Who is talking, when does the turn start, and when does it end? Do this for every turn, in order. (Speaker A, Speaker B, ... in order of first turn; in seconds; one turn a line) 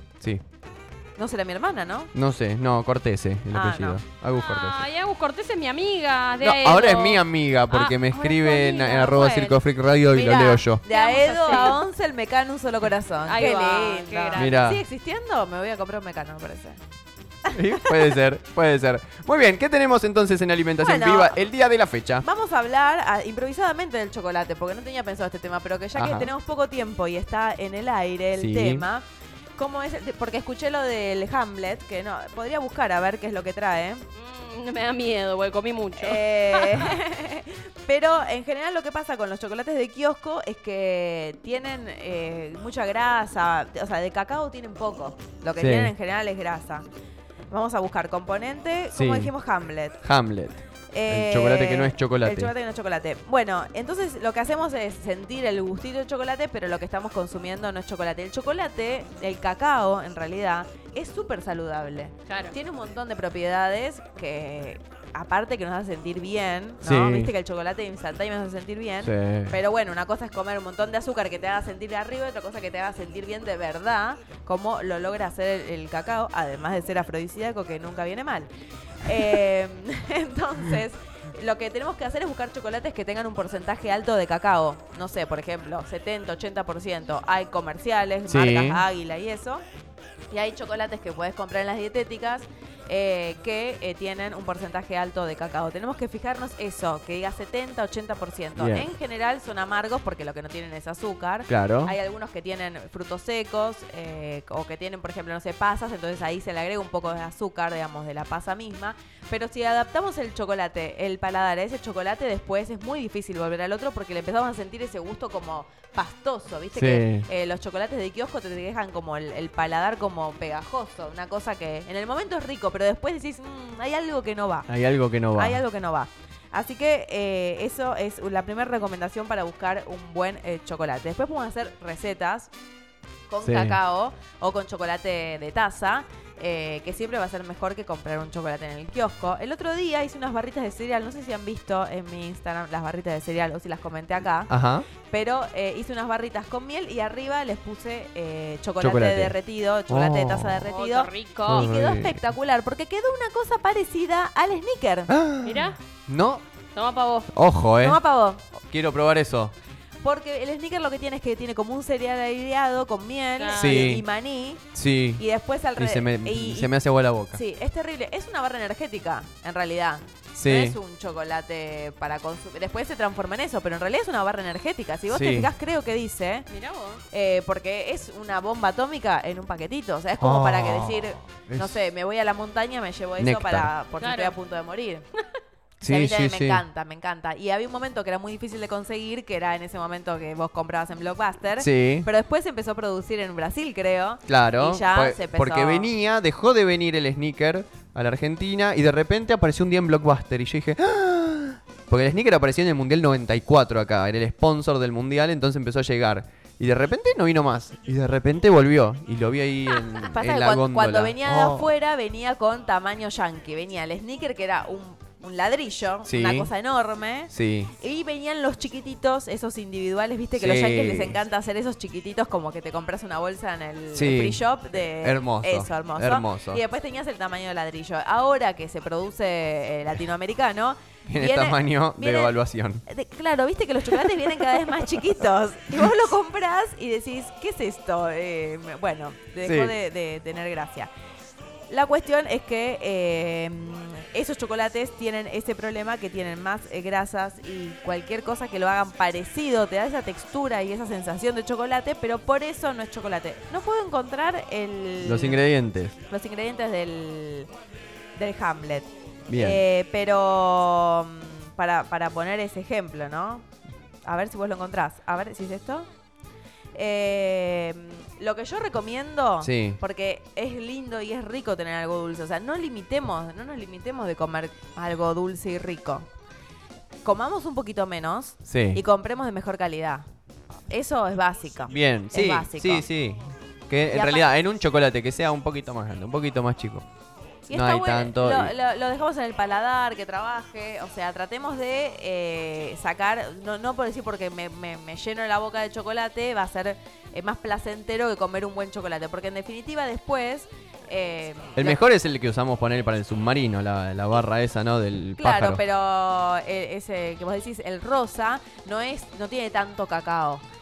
Speaker A: 1.2-2.1
Speaker B: 2.1-4.8
Speaker A: 3.5-4.0
Speaker C: 4.3-7.8
Speaker B: 6.4-10.8
Speaker A: 7.7-9.6
Speaker A: 10.1-16.8
Speaker C: 10.9-11.8
Speaker C: 13.2-14.5
Speaker B: 14.3-14.8
Speaker A: 17.5-18.2
Speaker B: 17.5-22.2
Speaker A: 20.8-21.4
Speaker A: 22.2-29.0
Speaker B: 25.9-26.3
Speaker B: 28.3-28.8
Speaker A: 29.6-34.0
Speaker C: 34.1-37.0
Speaker A: 36.0-46.9
Speaker B: 45.6-45.9
Speaker A: 47.5-50.0
Speaker B: 48.9-49.3
Speaker B: 50.0-52.5
Speaker A: 50.9-78.5
Speaker C: 62.3-62.5
Speaker B: 66.8-67.3
Speaker B: 69.0-69.6
Speaker A: 79.0-89.6
Speaker B: 88.3-88.8
Speaker A: 90.3-124.7
Speaker B: 98.6-98.9
Speaker B: 101.5-101.9
Speaker B: 116.7-117.3
Speaker B: 124.7-125.6
Speaker A: 125.3-132.5
Speaker A: 133.3-144.5
Speaker B: 133.4-133.8
Speaker B: 144.5-144.9
Speaker A: 145.1-155.1
Speaker B: 148.8-149.3
Speaker B: 149.9-150.7
Speaker C: 150.7-151.7
Speaker B: 151.5-152.2
Speaker B: 155.1-156.4
Speaker C: 155.4-155.8
Speaker C: 156.7-157.3
Speaker B: 157.3-158.0
Speaker A: 157.8-158.4
Speaker B: 158.6-159.5
Speaker A: 160.0-166.7
Speaker C: 163.4-163.9
Speaker B: 163.5-164.0
Speaker B: 164.7-165.2
Speaker B: 165.8-167.4
Speaker A: 167.3-176.5
Speaker B: 170.3-170.8
Speaker B: 175.1-175.5
Speaker C: 176.5-177.0
Speaker A: 177.1-185.0
Speaker B: 180.2-181.7
Speaker B: 183.2-183.7
Speaker C: 184.0-184.3
Speaker B: 185.8-186.6
Speaker A: 185.8-195.9
Speaker B: 191.6-192.1
Speaker B: 194.3-211.7
Speaker A: 210.0-232.3
Speaker B: 216.1-216.5
Speaker B: 217.3-217.7
Speaker B: 220.4-221.2
Speaker B: 223.9-224.4
Speaker B: 225.0-226.6
Speaker B: 231.1-232.8
Speaker A: 232.9-240.9
Speaker B: 239.4-239.7
Speaker A: 241.7-255.4
Speaker B: 255.0-255.9
Speaker A: 256.1-257.5
Speaker A: 258.2-263.4
Speaker B: 259.3-259.6
Speaker A: 264.1-265.9
Speaker A: 266.7-276.1
Speaker B: 269.4-269.8
Speaker A: 277.0-280.1
Speaker B: 278.4-278.8
Speaker A: 280.7-282.9
Speaker B: 281.7-286.8
Speaker A: 283.9-284.3
Speaker A: 287.5-301.8
Speaker B: 287.5-288.5
Speaker B: 301.6-305.6
Speaker A: 305.2-310.4